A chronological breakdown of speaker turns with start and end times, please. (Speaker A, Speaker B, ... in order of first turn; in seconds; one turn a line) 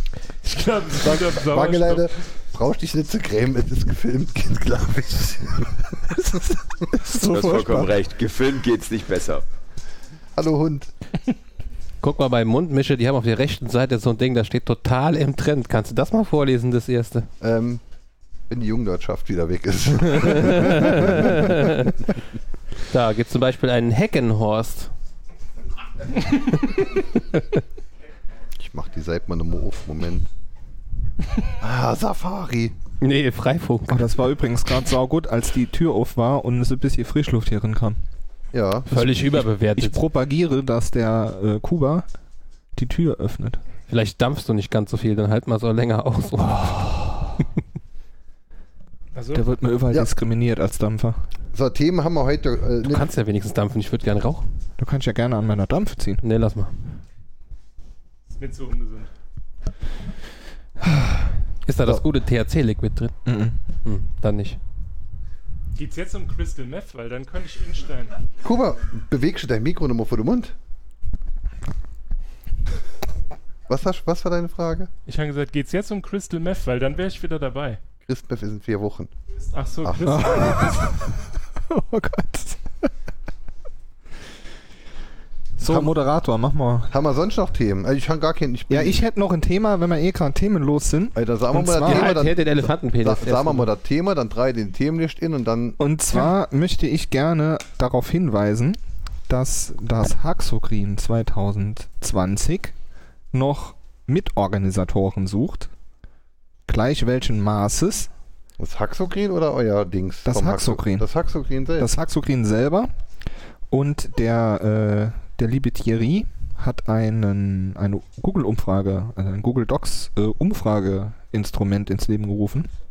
Speaker A: 0.4-2.1
Speaker B: 1.0-6.8
Speaker C: 6.9-7.9
Speaker D: 7.2-9.4
Speaker B: 10.3-10.9
Speaker E: 12.0-17.3
Speaker B: 17.4-17.8
Speaker B: 18.5-21.9
Speaker E: 20.3-21.9
Speaker E: 22.9-24.9
Speaker B: 28.6-30.3
Speaker B: 31.6-32.8
Speaker E: 33.0-34.0
Speaker C: 33.9-38.0
Speaker B: 38.5-38.9
Speaker E: 38.9-40.0
Speaker C: 38.9-42.1
Speaker C: 42.8-43.6
Speaker E: 43.9-47.3
Speaker A: 49.1-49.4
Speaker C: 49.3-51.2
Speaker B: 51.5-53.1
Speaker E: 52.8-54.4
Speaker C: 54.8-56.2
Speaker E: 56.2-56.8
Speaker A: 58.3-59.1
Speaker C: 60.8-61.2
Speaker E: 61.6-63.1
Speaker C: 63.2-63.6
Speaker E: 63.8-64.6
Speaker A: 65.8-68.2
Speaker B: 68.4-70.5
Speaker B: 73.7-74.9
Speaker A: 75.1-77.8
Speaker B: 78.0-79.1
Speaker A: 79.5-80.9
Speaker B: 79.8-80.7
Speaker C: 80.0-81.0
Speaker C: 81.7-82.9
Speaker C: 85.6-86.9
Speaker B: 85.6-85.9
Speaker B: 86.9-89.0
Speaker C: 88.7-92.2
Speaker B: 91.1-95.8
Speaker E: 91.8-93.7
Speaker C: 95.8-102.7
Speaker C: 103.3-105.7
Speaker C: 106.7-108.1
Speaker B: 108.6-111.9
Speaker C: 110.2-111.1
Speaker C: 111.8-112.9
Speaker C: 113.7-122.7